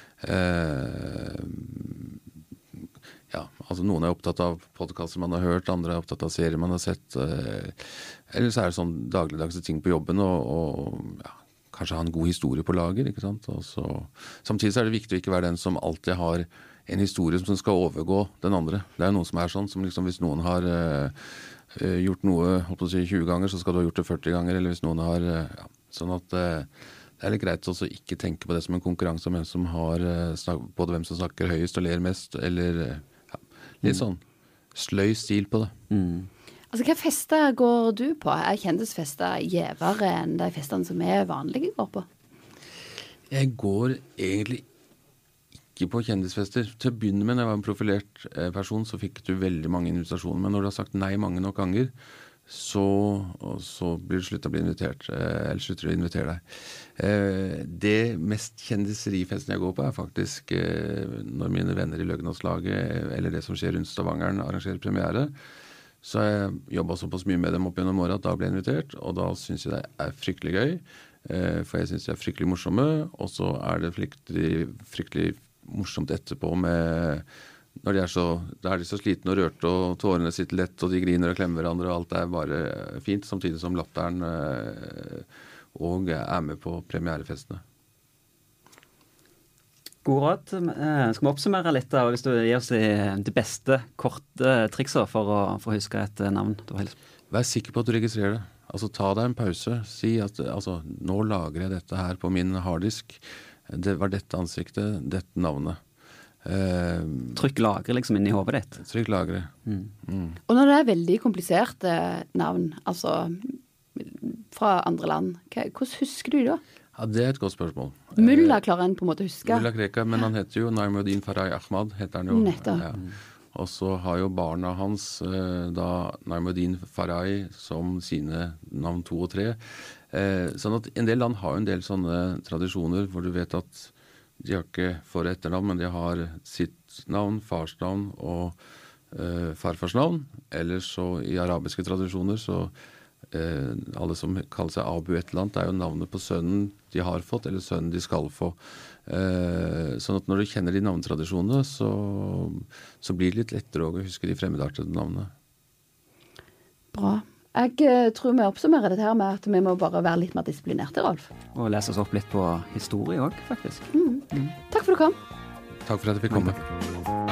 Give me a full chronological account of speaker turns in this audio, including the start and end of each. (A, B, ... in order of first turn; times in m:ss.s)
0:00.2-0:02.2 A
0:03.3-0:33.1 A
0:33.8-0:34.2 A
0:34.8-0:35.7 A
0:35.9-0:36.3 B
0:36.7-0:42.1 C
0:43.3-0:44.6 A
0:45.8-0:51.9 A
0:52.5-1:05.3 A
1:06.0-1:17.2 A
1:17.8-1:27.6 A
1:30.0-1:37.0 B
1:37.3-1:45.8 A
1:46.4-1:47.4 A
1:47.4-1:48.8 B
1:48.8-1:49.5 A
1:50.0-1:50.4 A
1:50.5-1:56.6 C
1:57.0-1:58.6 A
1:58.2-1:59.7 C
1:59.4-2:09.6 A
2:02.3-2:02.8 C
2:10.1-2:18.6 A
2:19.1-2:22.7 A
2:23.3-2:35.3 A
2:36.9-2:41.3 C
2:41.6-2:44.5 B
2:43.9-2:45.2 C
2:45.9-2:46.6 A
2:46.3-2:46.6 B